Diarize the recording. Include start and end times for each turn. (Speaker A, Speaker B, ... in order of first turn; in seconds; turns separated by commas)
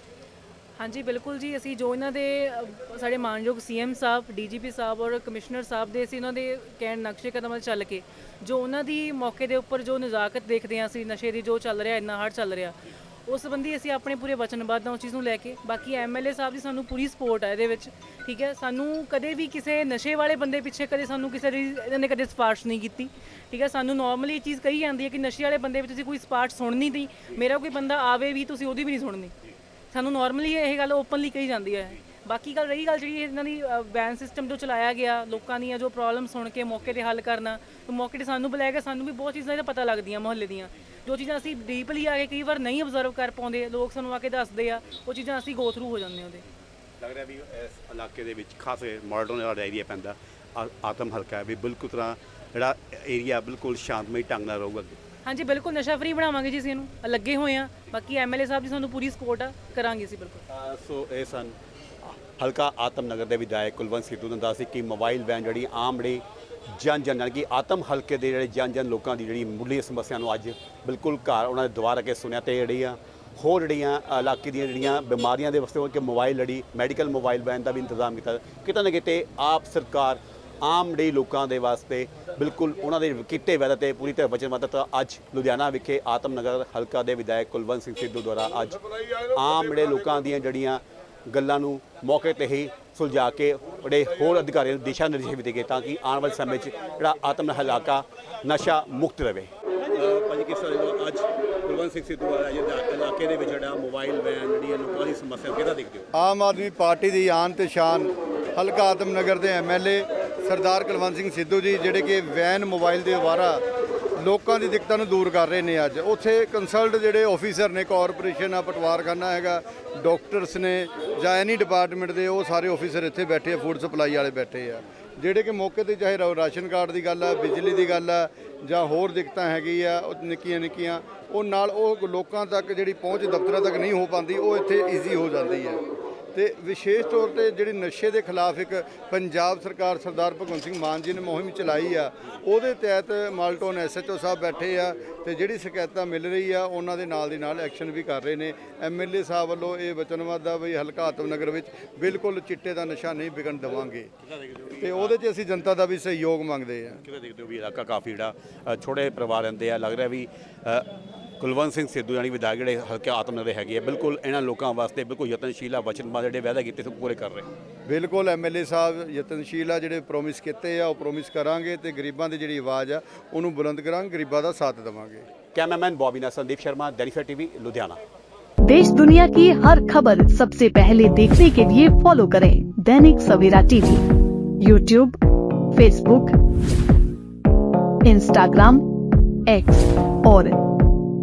Speaker A: 0.8-29.3, Speaker A: 29.9-46.4, Speaker B: 47.0-55.0, Speaker A: 55.2-60.4, Speaker B: 60.5-66.2, Speaker B: 66.8-88.8, Speaker B: 89.3-106.1, Speaker C: 106.1-113.6, Speaker C: 114.2-135.8, Speaker C: 136.3-154.1, Speaker B: 154.3-155.1, Speaker C: 154.8-157.0, Speaker B: 157.0-160.9, Speaker B: 161.4-167.5, Speaker C: 167.9-175.3, Speaker B: 175.5-178.0, Speaker D: 178.7-184.1, Speaker D: 184.6-185.2, Speaker D: 185.7-186.3, Speaker D: 188.0-188.8, Speaker D: 189.5-190.6